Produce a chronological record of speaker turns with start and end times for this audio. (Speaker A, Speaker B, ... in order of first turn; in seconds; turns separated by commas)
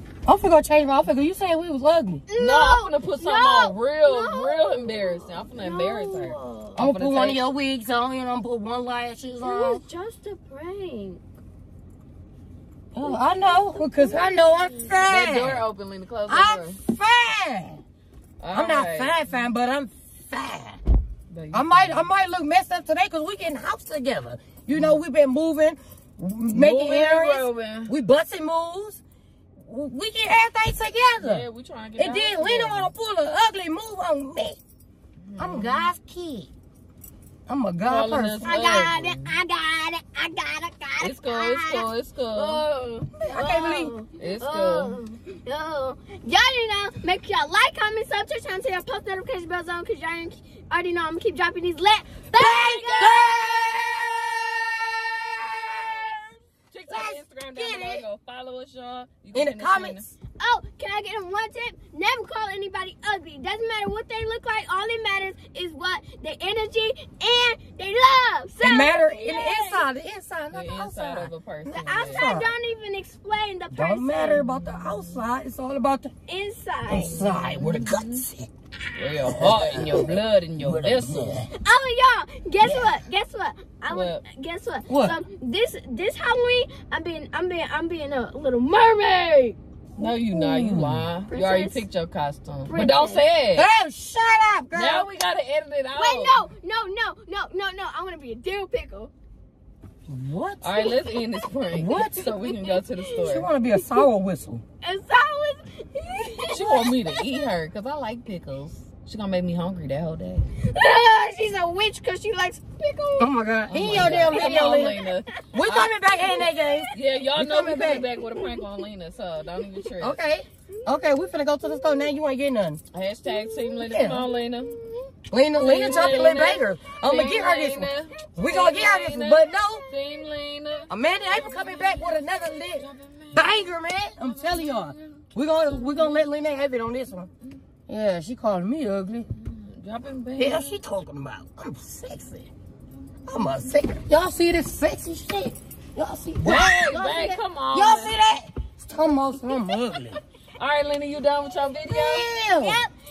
Speaker A: 0.3-2.2, Speaker B: 2.3-6.8, Speaker C: 2.4-7.4, Speaker A: 6.8-9.8, Speaker B: 9.4-11.2, Speaker A: 12.9-15.7, Speaker B: 13.0-15.2, Speaker C: 15.1-16.8, Speaker A: 16.3-17.8, Speaker C: 18.4-19.2, Speaker A: 18.5-20.8, Speaker C: 21.3-22.1, Speaker A: 21.5-29.0, Speaker C: 24.7-25.0, Speaker C: 26.5-27.9, Speaker A: 29.6-31.5, Speaker C: 31.2-32.9, Speaker A: 32.0-34.6, Speaker C: 35.2-35.9, Speaker A: 35.4-36.5, Speaker A: 37.5-38.9, Speaker C: 37.8-39.3, Speaker B: 38.4-53.5, Speaker C: 41.0-42.7, Speaker A: 43.2-43.9, Speaker C: 44.2-45.0, Speaker A: 52.4-56.3, Speaker C: 52.7-53.3, Speaker C: 56.7-60.1, Speaker A: 56.9-58.0, Speaker A: 59.3-60.1, Speaker B: 60.4-69.9, Speaker A: 68.6-72.5, Speaker C: 70.5-72.3, Speaker B: 71.8-74.5, Speaker A: 73.7-76.1, Speaker C: 74.7-75.0, Speaker B: 76.3-77.2, Speaker A: 76.9-78.5, Speaker C: 77.1-78.2, Speaker C: 79.0-81.4, Speaker A: 79.2-81.5, Speaker B: 81.5-89.6, Speaker A: 82.6-82.9, Speaker C: 83.9-84.2, Speaker A: 84.9-85.2, Speaker A: 90.0-91.1, Speaker C: 90.0-93.7, Speaker B: 91.3-91.8, Speaker B: 92.7-93.2, Speaker A: 93.5-95.1, Speaker C: 94.7-96.5, Speaker B: 95.9-99.1, Speaker A: 100.1-101.0, Speaker C: 100.6-103.5, Speaker A: 101.7-102.3, Speaker B: 102.3-103.1, Speaker A: 103.2-104.6, Speaker B: 104.8-107.3, Speaker C: 106.4-110.5, Speaker B: 110.6-113.3, Speaker A: 113.2-115.0, Speaker C: 113.7-116.1, Speaker B: 114.1-115.1, Speaker A: 115.5-118.1, Speaker C: 116.9-120.2, Speaker A: 120.0-122.8, Speaker B: 120.8-121.1, Speaker B: 121.7-122.1, Speaker C: 122.9-124.8, Speaker B: 123.3-125.0, Speaker A: 123.8-124.2, Speaker A: 125.3-129.9, Speaker C: 125.6-133.5, Speaker B: 129.6-129.9, Speaker A: 130.9-137.3, Speaker C: 134.2-136.3, Speaker A: 137.9-139.3, Speaker C: 139.3-140.8, Speaker A: 140.4-142.5, Speaker A: 143.3-150.2, Speaker C: 146.4-148.2, Speaker C: 150.6-152.3, Speaker A: 151.9-152.8, Speaker B: 152.5-152.9